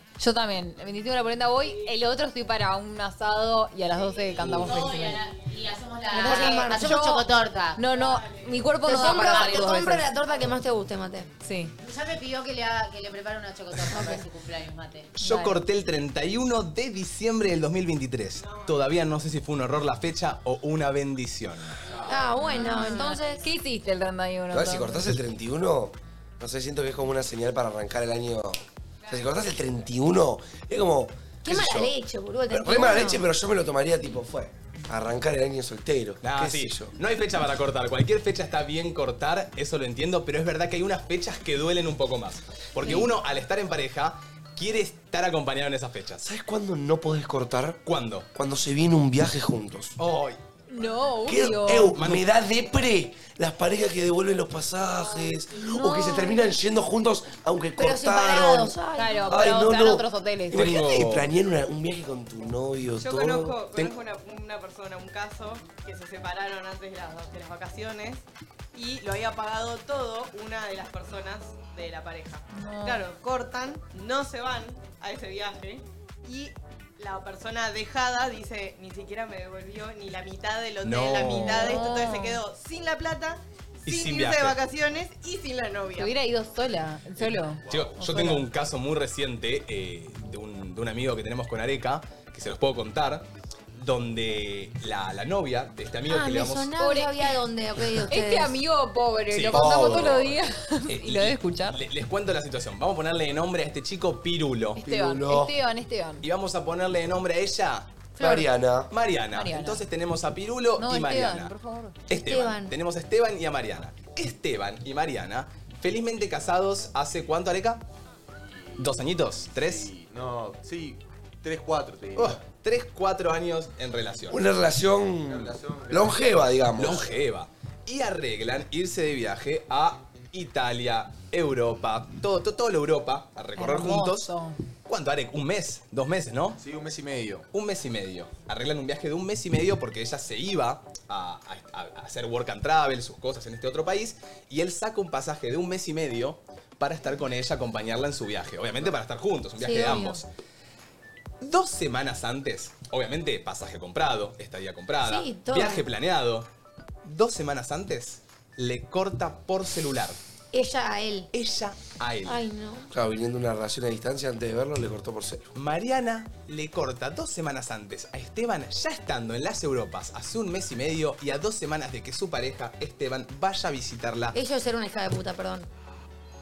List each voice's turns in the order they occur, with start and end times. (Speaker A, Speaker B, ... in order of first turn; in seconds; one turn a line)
Speaker A: 0.2-5.2
Speaker B: 4.4-4.8
Speaker C: 4.6-7.9
Speaker A: 6.1-10.1
Speaker D: 6.1-7.0
Speaker E: 7.9-8.6
Speaker D: 8.8-11.3
Speaker C: 8.9-9.9
Speaker A: 11.4-11.7
Speaker C: 11.8-15.1
Speaker A: 13.9-14.2
Speaker B: 15.1-21.8
Speaker A: 15.2-15.6
Speaker E: 18.4-18.8
Speaker D: 22.1-23.4
Speaker A: 22.4-25.1
Speaker F: 24.5-31.9
Speaker D: 31.4-33.2
Speaker F: 32.5-36.9
Speaker B: 36.2-46.3
Speaker F: 46.2-47.8
Speaker B: 47.9-48.3
Speaker F: 48.3-50.0
Speaker B: 50.0-50.4
Speaker A: 50.7-52.0
Speaker F: 51.2-58.8
Speaker B: 52.0-52.2
Speaker A: 55.6-56.4
Speaker D: 57.8-59.6
Speaker A: 59.0-60.7
Speaker F: 59.3-63.6
Speaker B: 60.5-61.3
Speaker E: 63.0-86.1
Speaker A: 72.5-73.0
Speaker B: 80.8-81.8
Speaker A: 81.4-82.4
Speaker B: 83.8-84.6
Speaker A: 86.0-88.5
Speaker G: 87.6-87.9
Speaker B: 87.7-96.7
Speaker D: 96.1-98.5
Speaker A: 96.8-97.3
Speaker A: 98.1-101.8
Speaker B: 99.3-100.1
Speaker F: 99.5-100.3
Speaker B: 100.9-104.8
Speaker A: 104.8-106.2
Speaker F: 104.8-105.5
Speaker B: 106.2-107.9
Speaker D: 108.2-108.4
Speaker F: 108.2-108.9
Speaker B: 108.9-111.5
Speaker A: 109.3-109.8
Speaker A: 110.8-111.9
Speaker B: 112.1-117.8
Speaker D: 112.1-112.7
Speaker G: 118.3-119.0
Speaker B: 118.8-119.9
Speaker G: 119.5-122.4
Speaker B: 122.2-124.4
Speaker F: 124.3-127.0
Speaker G: 125.2-126.5
Speaker B: 126.8-134.3
Speaker A: 133.6-134.6
Speaker B: 134.9-136.6
Speaker G: 136.6-137.4
Speaker B: 137.5-150.3
Speaker D: 149.6-150.2
Speaker B: 151.4-156.5
Speaker D: 155.0-155.8
Speaker B: 157.0-160.2
Speaker D: 160.5-161.3
Speaker B: 161.3-162.4
Speaker D: 162.2-162.9
Speaker F: 162.9-165.5
Speaker B: 165.5-174.3
Speaker D: 174.3-175.7